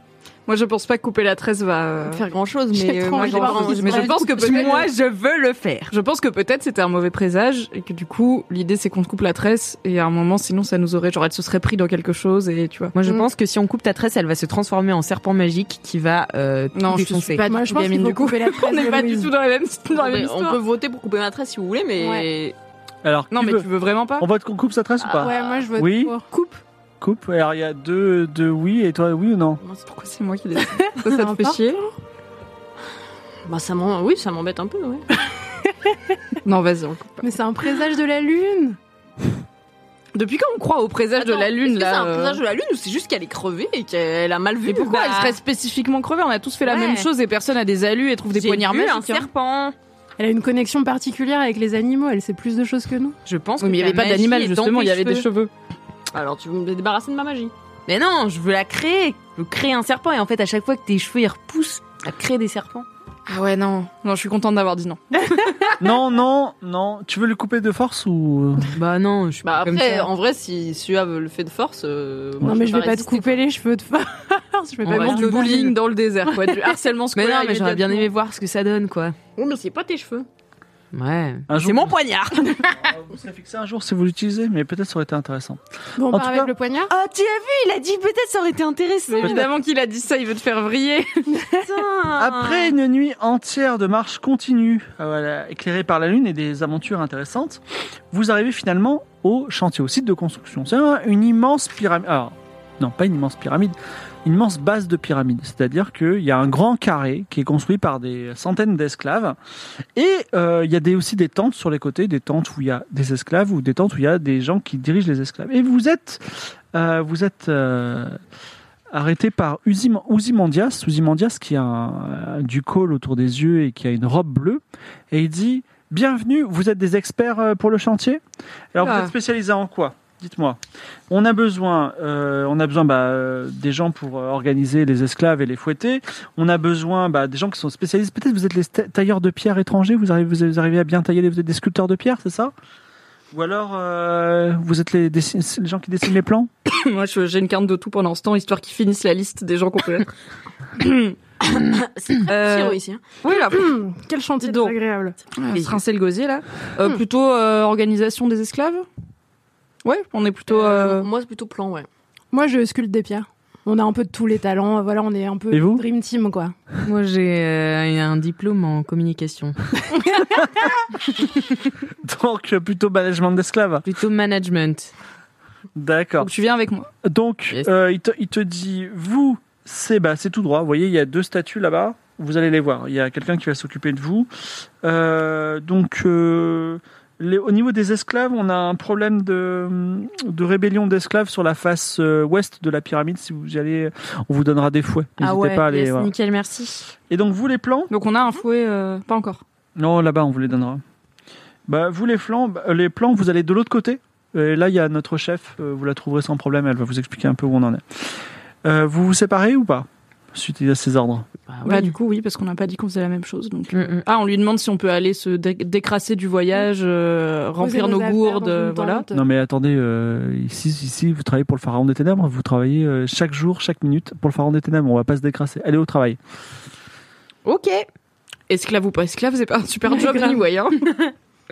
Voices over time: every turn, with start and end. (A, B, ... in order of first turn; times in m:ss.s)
0:00.5-0:02.2 A
0:02.0-0:04.8 B
0:02.7-0:04.8 C
0:03.1-0:04.9 A
0:04.1-0:05.9 D
0:05.9-0:12.9 A
0:12.9-0:17.5 D
0:16.7-0:20.6 A
0:17.4-0:19.3 C
0:19.9-0:22.5 B
0:22.0-0:22.3 C
0:23.0-0:23.7 E
0:23.3-0:24.3 A
0:24.2-0:26.2 E
0:25.0-0:25.5 B
0:25.2-0:26.3 C
0:27.0-0:29.6 E
0:29.9-0:31.8 A
0:31.0-0:31.6 C
0:33.4-0:35.0 B
0:36.4-0:37.3 A
0:37.2-0:38.8 C
0:40.1-0:42.4 A
0:41.2-0:45.3 B
0:44.6-0:49.3 A
0:46.6-0:47.1 D
0:48.3-0:49.7 D
0:50.2-0:53.2 C
0:53.2-0:55.3 D
0:53.6-0:55.5 A
0:56.1-0:57.5 B
0:57.9-1:02.9 D
1:03.3-1:05.5 A
1:05.8-1:08.8 E
1:08.8-1:10.1 D
1:09.4-1:13.4 B
1:12.4-1:15.7 C
1:14.8-1:15.7 D
1:14.8-1:18.1 A
1:17.1-1:19.2 D
1:19.4-1:20.3 B
1:20.9-1:22.9 D
1:21.5-1:22.0 E
1:22.8-1:26.5 E
1:26.0-1:26.9 C
1:26.9-1:29.5 D
1:29.1-1:31.2 A
1:29.2-1:29.5 E
1:31.5-1:32.7 D
1:32.1-1:49.4 E
1:50.0-1:58.2 E
1:58.9-2:08.2 E
2:08.7-2:10.6 E
2:08.8-2:09.1 A
2:11.1-2:22.5 E
2:23.3-2:26.5 E
2:26.7-2:30.1 A
2:30.8-2:31.1 A
2:31.4-2:33.2 B
2:32.3-2:33.7 A
2:33.5-2:35.2 C
2:34.4-2:34.7 A
2:35.4-2:38.8 A
2:39.8-2:41.1 A
2:40.5-2:41.9 B
2:42.3-2:46.5 C
2:45.5-2:45.8 E
2:46.8-2:49.6 D
2:52.0-2:53.9 E
2:53.8-2:54.9 D
2:55.7-2:56.3 E
2:56.2-2:56.9 A
2:57.0-3:04.3 E
3:04.8-3:16.1 E
3:15.2-3:16.9 D
3:17.1-3:17.9 E
3:17.9-3:19.4 A
3:19.8-3:20.8 E
3:21.7-3:31.3 E
3:31.5-3:31.9 D
3:31.6-3:39.0 A
3:33.7-3:34.0 D
3:37.6-3:39.2 C
3:39.1-3:46.2 E
3:47.4-3:47.9 D
3:48.5-3:50.8 A
3:49.9-3:50.4 C